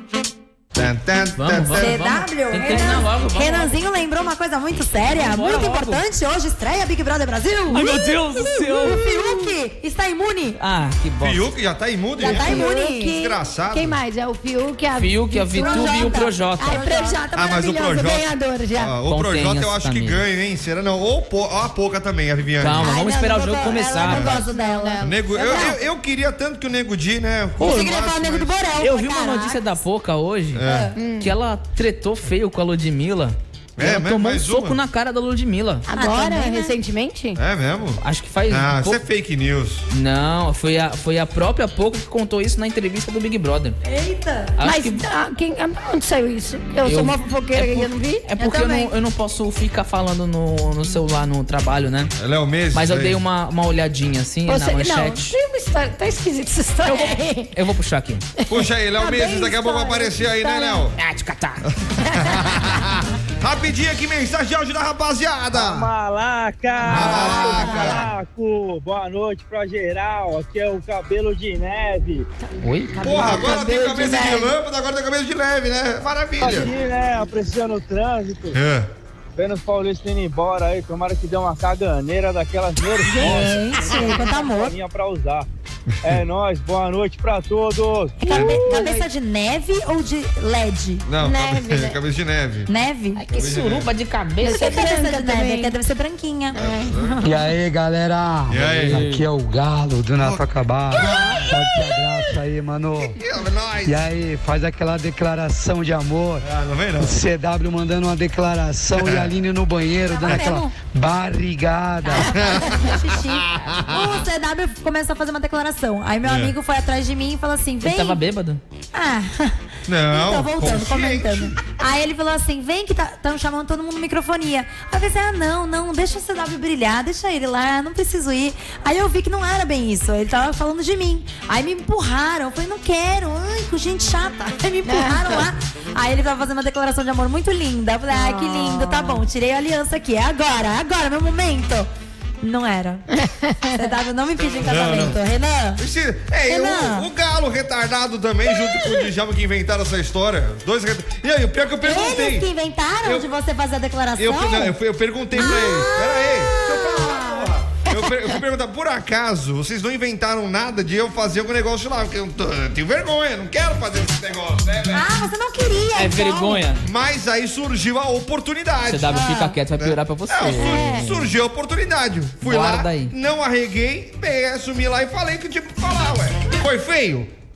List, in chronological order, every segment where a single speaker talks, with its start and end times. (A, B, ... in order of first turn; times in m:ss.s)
0:00.7-0:02.0 A
0:01.4-0:03.7 B
0:01.8-0:10.6 C
0:05.1-0:06.0 B
0:07.7-0:09.1 B
0:10.6-0:11.5 B
0:11.2-0:14.0 A
0:12.2-0:13.3 C
0:12.3-0:19.0 D
0:15.0-0:16.8 B
0:15.4-0:17.2 C
0:17.3-0:22.9 A
0:19.1-0:20.2 B
0:22.6-0:24.4 B
0:22.8-0:25.7 C
0:24.0-0:24.4 A
0:24.2-0:25.8 D
0:25.0-0:28.6 A
0:27.6-0:29.8 C
0:28.8-0:35.9 B
0:30.5-0:30.9 A
0:30.6-0:30.9 C
0:31.0-0:31.3 D
0:33.8-0:34.8 A
0:35.9-0:37.4 D
0:35.9-0:36.8 C
0:37.4-0:39.9 A
0:38.0-0:39.0 B
0:39.9-0:43.8 B
0:43.8-0:44.6 C
0:44.6-0:45.0 B
0:44.6-0:48.8 D
0:46.8-0:52.1 B
0:48.5-0:48.9 C
0:52.2-0:53.2 A
0:52.7-0:55.3 B
0:54.5-0:57.5 D
0:56.8-0:58.2 B
0:58.4-1:00.5 D
0:58.5-1:01.0 A
0:59.0-1:00.8 C
1:01.0-1:01.6 B
1:01.7-1:05.9 A
1:02.0-1:02.4 D
1:05.5-1:12.3 E
1:06.9-1:08.1 A
1:07.2-1:08.0 C
1:07.3-1:07.9 D
1:12.6-1:13.0 B
1:13.0-1:16.7 A
1:13.0-1:14.5 D
1:16.4-1:18.6 E
1:18.5-1:18.9 A
1:19.4-1:25.4 E
1:23.2-1:24.7 C
1:26.0-1:28.3 E
1:28.2-1:31.0 C
1:28.3-1:29.1 D
1:28.3-1:28.6 A
1:31.0-1:32.7 A
1:31.2-1:32.0 D
1:32.7-1:33.2 C
1:33.2-1:34.7 B
1:33.3-1:33.9 A
1:34.4-1:35.7 D
1:34.5-1:36.6 C
1:36.5-1:36.9 D
1:36.6-1:37.3 A
1:37.2-1:43.2 F
1:38.5-1:39.0 A
1:38.6-1:39.2 B
1:40.2-1:41.9 A
1:41.1-1:41.4 D
1:43.1-1:44.0 A
1:43.8-1:46.4 F
1:46.4-1:47.2 A
1:47.0-1:52.3 F
1:48.9-1:49.3 A
1:50.1-1:50.7 C
1:50.3-1:50.6 A
1:52.0-1:58.2 C
1:52.2-1:54.2 A
1:56.2-1:56.5 A
1:57.8-1:58.6 B
1:58.9-1:59.6 C
1:59.9-2:01.6 A
2:00.1-2:21.9 C
2:14.9-2:15.5 D
2:18.1-2:19.2 D
2:22.4-2:23.0 C
2:23.2-2:23.9 D
2:23.7-2:25.8 C
2:24.7-2:25.2 A
2:25.8-2:32.5 A
2:26.4-2:27.1 C
2:31.8-2:34.7 C
2:34.2-2:45.1 A
2:35.3-2:37.5 C
2:44.9-2:46.7 C
2:46.0-2:46.8 B
2:46.8-2:49.2 A
2:48.9-2:51.3 B
2:49.1-2:49.6 C
2:49.8-2:57.3 A
2:50.4-2:51.1 D
2:52.4-2:53.1 B